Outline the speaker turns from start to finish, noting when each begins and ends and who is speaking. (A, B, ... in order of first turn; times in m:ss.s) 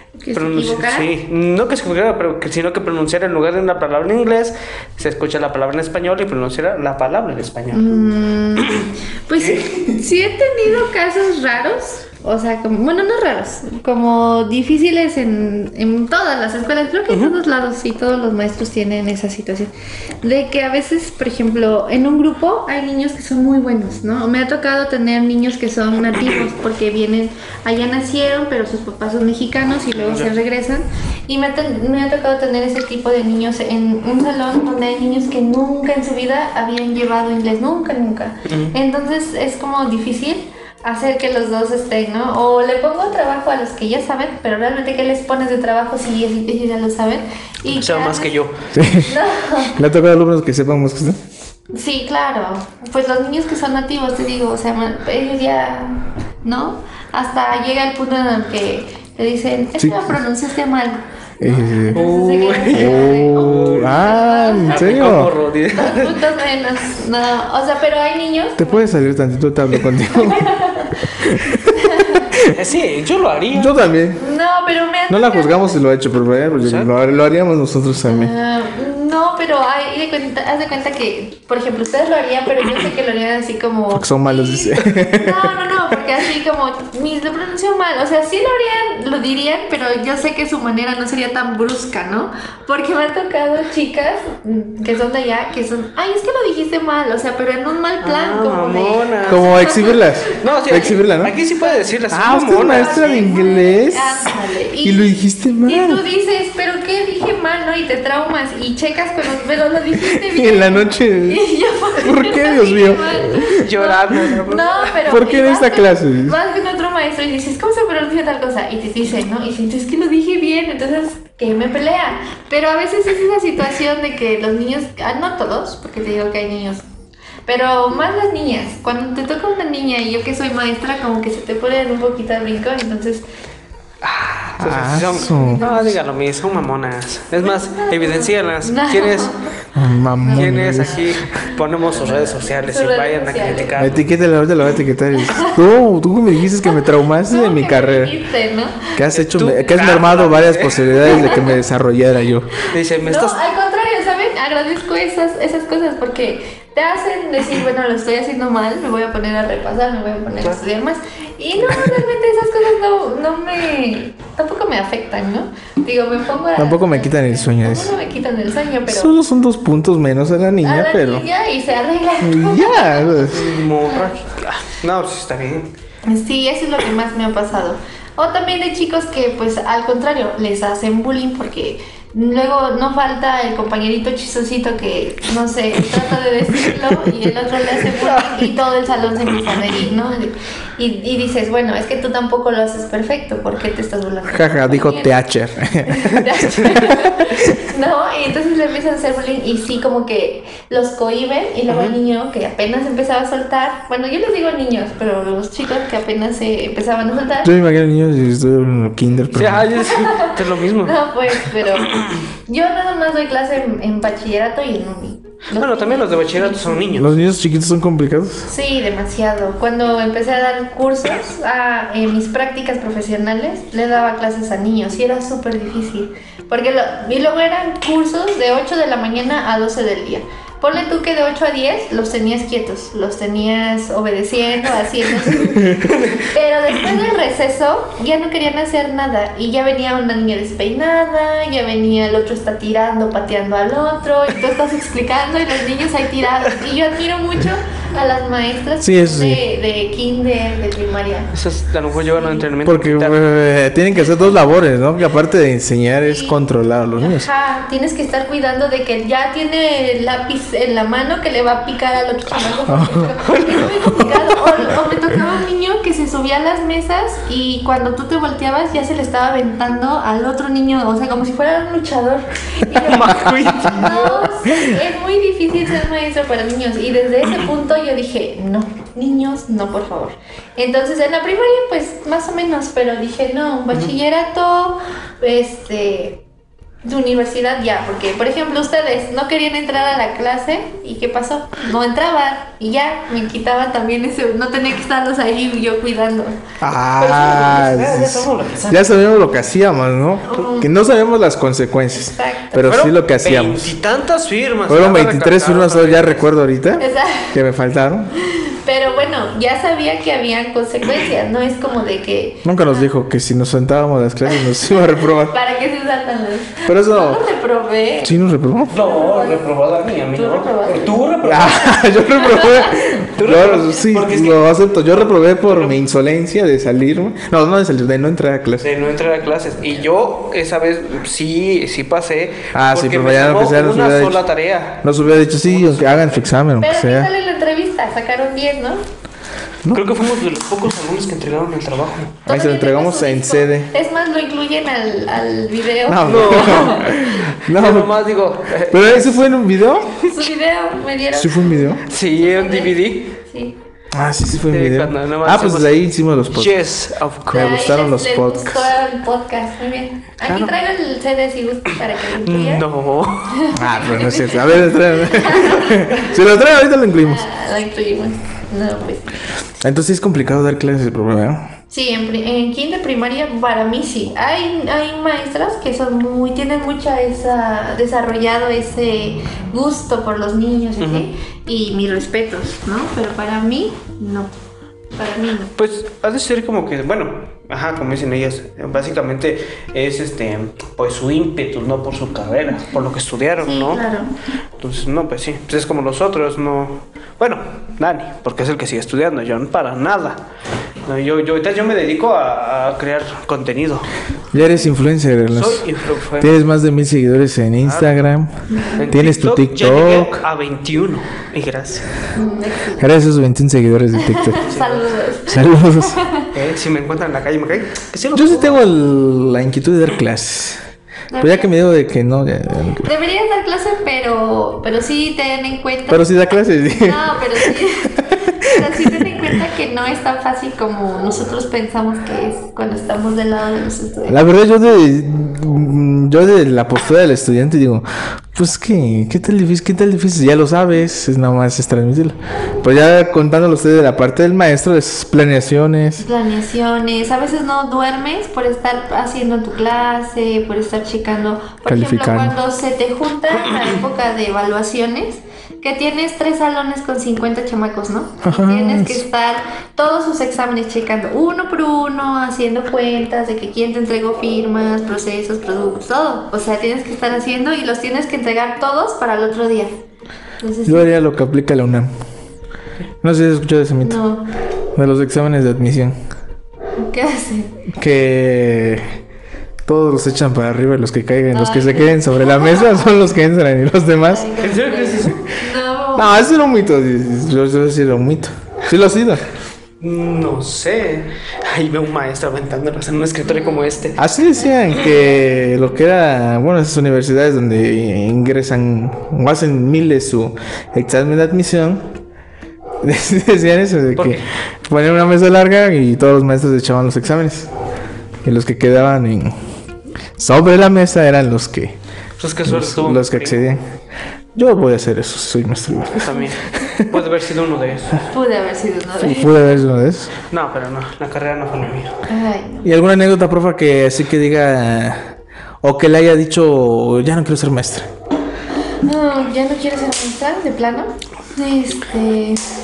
0:00.2-0:01.1 A
0:00.3-0:07.9 B
0:07.7-0:49.8 A
0:08.6-0:09.8 B
0:29.9-0:30.3 B
0:38.4-0:38.7 B
0:47.7-0:48.7 B
0:48.7-0:49.1 C
0:49.7-0:51.2 C
0:51.7-1:05.0 A
0:59.8-1:00.2 C
1:01.4-1:02.0 C
1:01.9-1:04.1 B
1:02.7-1:05.3 C
1:04.6-1:06.3 B
1:05.7-1:08.9 A
1:08.6-1:12.5 C
1:10.1-1:12.3 A
1:12.5-1:13.8 B
1:13.5-1:14.2 C
1:14.2-1:15.8 A
1:15.1-1:18.3 C
1:16.6-1:16.9 B
1:18.1-1:40.9 A
1:23.9-1:25.7 C
1:38.0-1:43.3 B
1:39.3-1:41.3 C
1:42.1-1:46.0 C
1:42.6-2:06.8 A
1:50.0-1:51.4 C
1:52.0-1:53.7 C
1:53.5-1:55.0 B
1:55.1-1:56.4 C
2:07.4-2:13.3 A
2:14.0-2:19.3 B
2:14.6-2:15.7 C
2:15.2-2:16.0 A
2:17.4-2:19.5 A
2:19.7-2:21.2 C
2:20.2-2:20.9 A
2:20.3-2:24.0 B
2:21.5-2:23.8 A
2:23.8-2:28.1 C
2:25.1-2:25.6 A
2:26.6-2:29.0 A
2:29.0-2:32.5 C
2:29.1-2:31.4 B
2:31.1-2:31.5 A
2:32.7-2:33.4 B
2:33.0-2:49.1 A
2:46.6-2:47.9 C
2:48.9-2:51.2 C
2:50.6-2:54.0 A
2:52.2-2:53.5 C
2:53.2-2:55.7 B
2:56.0-3:15.1 A
3:08.1-3:08.5 B
3:14.3-3:17.6 C
3:15.9-3:27.5 A
3:21.7-3:22.0 B
3:27.4-3:29.7 C
3:29.3-3:32.1 B
3:29.8-3:37.0 A
3:35.6-3:37.2 B
3:37.0-3:38.5 C
3:38.5-4:11.3 A
4:08.8-4:09.4 C
4:11.3-4:13.3 B
4:12.6-4:17.3 C
4:16.0-4:16.4 A
4:17.0-4:46.2 A
4:22.7-4:23.2 C
4:23.2-4:23.7 B
4:23.8-4:24.2 C
4:32.7-4:34.3 B
4:33.2-4:33.8 C
4:46.8-4:56.4 A
4:56.6-5:03.7 C
4:57.0-4:59.1 B
5:00.2-5:00.7 A
5:01.9-5:02.7 A
5:02.6-5:06.3 B
5:04.7-5:08.1 C
5:06.8-5:07.4 A
5:08.1-5:12.9 A
5:12.4-5:15.4 C
5:14.3-5:18.2 A
5:16.6-5:17.3 C
5:18.0-5:18.7 C
5:18.7-5:21.9 B
5:18.7-5:19.4 A
5:20.1-5:20.9 A
5:21.2-5:28.7 C
5:22.1-5:22.8 A
5:23.1-5:24.4 B
5:25.1-5:25.8 B
5:28.6-5:34.8 B
5:32.5-5:34.2 C
5:34.8-5:37.1 C
5:35.4-5:36.3 B
5:36.6-5:38.8 A
5:39.7-5:42.2 B
5:42.3-5:47.1 A
5:42.3-5:43.7 C
5:45.9-5:48.0 C
5:46.0-5:49.2 B
5:48.7-5:50.0 C
5:50.0-5:53.6 A
5:51.1-5:51.8 C
5:51.9-5:53.1 B
5:53.9-5:56.6 C
5:54.4-5:55.8 B
5:56.3-5:57.6 B
5:57.3-5:58.7 C
5:57.3-6:02.6 A
6:00.2-6:00.5 B
6:02.2-6:03.4 B
6:03.3-6:06.1 A
6:03.5-6:07.2 C
6:07.0-6:09.2 A
6:09.6-6:11.5 C
6:11.7-6:24.3 A
6:20.8-6:21.1 B
6:25.0-6:25.5 A
6:25.6-6:33.8 B
6:33.4-6:34.1 A
6:34.6-6:40.2 B
6:40.8-6:43.9 B
6:44.3-6:45.7 C
6:45.3-6:46.4 B
6:46.2-6:48.3 C
6:47.6-6:48.0 B
6:48.5-6:48.9 A
6:48.8-6:51.9 B
6:48.9-6:50.2 C
6:52.1-6:52.9 A
6:52.8-6:54.5 C
6:54.0-6:56.3 A
6:54.4-6:54.9 B
6:55.3-6:56.0 C
6:56.3-6:58.6 B
6:58.1-7:00.6 C
7:01.1-7:01.5 A
7:01.2-7:02.9 C
7:02.8-7:06.1 A
7:05.9-7:09.3 C
7:06.7-7:14.2 A
7:14.1-7:26.0 C
7:26.0-7:49.7 A
7:31.6-7:32.4 C
7:38.2-7:39.0 C
7:50.4-7:50.9 A
7:50.6-7:51.9 C
7:53.0-7:54.0 C
7:53.8-7:54.3 A
7:54.7-7:56.0 C
7:56.8-7:57.6 A
7:57.7-7:59.0 C
7:59.6-8:04.4 C
8:01.3-8:02.9 A
8:04.1-8:06.2 A
8:04.4-8:05.2 B
8:06.0-8:09.2 C
8:09.8-8:14.0 B
8:14.0-8:21.9 C
8:22.8-8:27.5 C
8:24.0-8:24.2 B
8:28.2-8:29.4 C
8:30.2-8:31.8 C
8:32.2-8:33.4 B
8:32.4-8:33.6 C
8:34.3-8:37.0 C
8:36.0-8:38.0 B
8:38.0-8:39.5 A
8:39.0-8:40.1 C
8:40.3-8:42.0 B
8:42.1-8:42.7 A
8:42.6-8:47.9 C
8:48.8-8:52.4 A